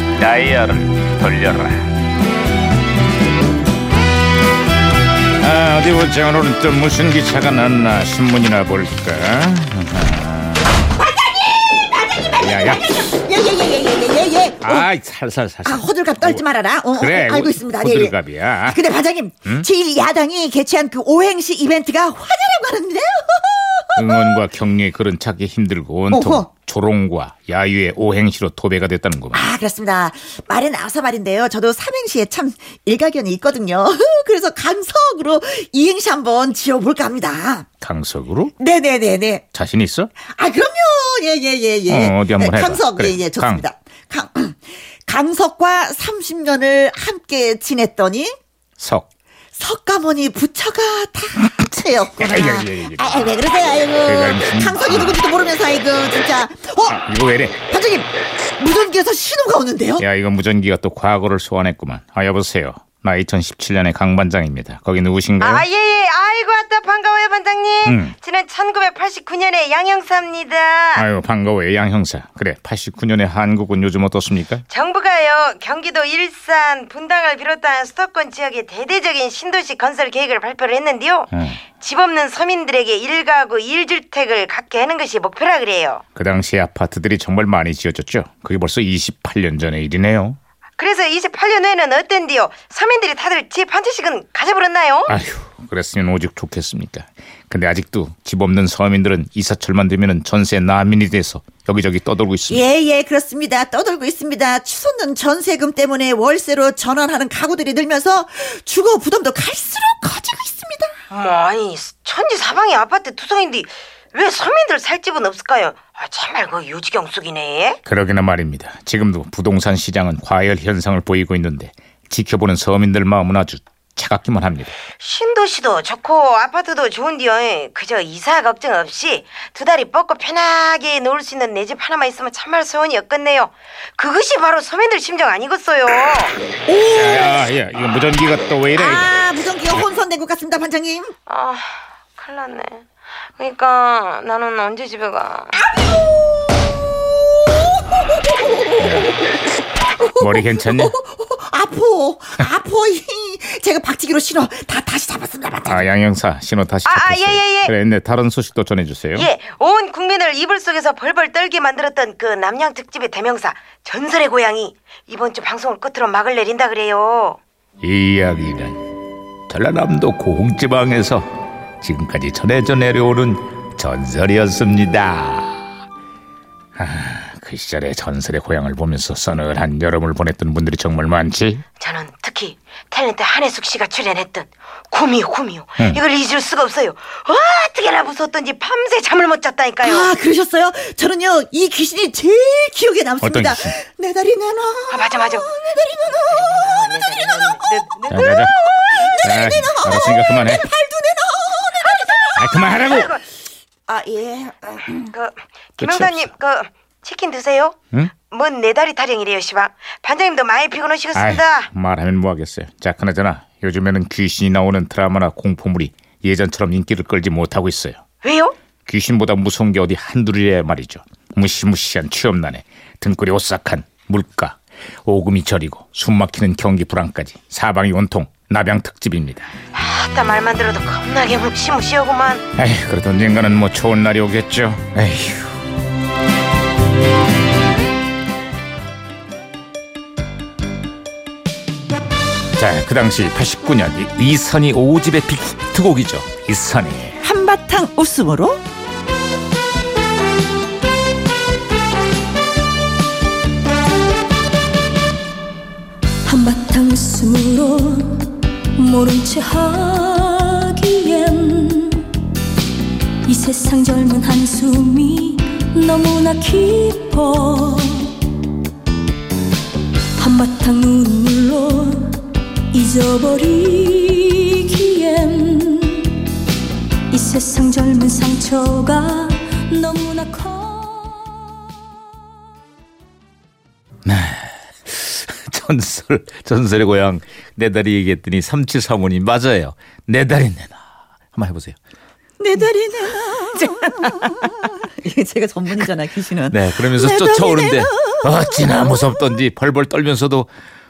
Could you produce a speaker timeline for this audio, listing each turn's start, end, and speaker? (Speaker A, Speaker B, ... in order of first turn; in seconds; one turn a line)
Speaker A: 0.2-1.9
Speaker A: 5.4-10.7
Speaker B: 11.2-14.8
Speaker A: 12.2-12.9
Speaker A: 14.6-18.8
Speaker B: 15.6-24.4
Speaker A: 24.0-29.4
Speaker B: 26.1-26.5
Speaker B: 29.3-37.7
Speaker A: 37.8-38.5
Speaker B: 38.6-39.4
Speaker A: 39.5-40.1
Speaker B: 40.2-48.3
Speaker A: 41.9-43.6
Speaker A: 48.8-49.1
Speaker B: 49.5-57.0
Speaker A: 52.2-53.3
Speaker A: 54.0-55.2
Speaker A: 56.9-57.6
Speaker B: 57.6-60.0
Speaker A: 60.0-65.6
Speaker C: 65.4-71.1
Speaker A: 67.8-68.1
Speaker A: 71.0-74.6
Speaker C: 74.7-86.0
Speaker A: 81.3-81.6
Speaker A: 86.1-90.4
Speaker C: 90.8-95.1
Speaker A: 95.1-102.7
Speaker B: 102.5-110.9
Speaker C: 111.1-117.8
Speaker A: 117.8-124.7
Speaker C: 125.0-136.3
Speaker B: 136.7-137.4
Speaker A: 136.9-139.1
Speaker B: 138.7-141.1
Speaker C: 141.3-145.5
Speaker B: 148.3-149.4
Speaker A: 148.8-149.1
Speaker B: 149.9-155.9
Speaker A: 150.2-150.9
Speaker A: 155.7-159.3
Speaker C: 156.8-157.7
Speaker C: 159.1-167.4
Speaker A: 167.8-168.8
Speaker A: 169.5-171.2
Speaker A: 171.8-175.6
Speaker A: 176.8-181.6
Speaker C: 181.8-190.1
Speaker B: 189.8-202.7
Speaker A: 193.2-193.7
Speaker C: 194.9-195.5
Speaker C: 196.2-198.2
Speaker A: 198.1-198.5
Speaker A: 199.2-200.7
Speaker A: 202.4-203.1
Speaker C: 202.6-203.2
Speaker B: 203.9-205.1
Speaker C: 205.0-211.7
Speaker A: 205.8-206.3
Speaker A: 211.1-218.0
Speaker C: 218.2-218.5
Speaker A: 218.8-229.5
Speaker C: 229.7-232.4
Speaker A: 232.6-235.5
Speaker A: 242.6-247.2
Speaker B: 247.2-248.6
Speaker D: 256.2-262.3
Speaker D: 263.2-268.3
Speaker D: 270.2-276.3
Speaker D: 277.1-281.4
Speaker A: 284.1-290.8
Speaker A: 291.3-291.8
Speaker B: 292.4-299.2
Speaker A: 296.5-300.5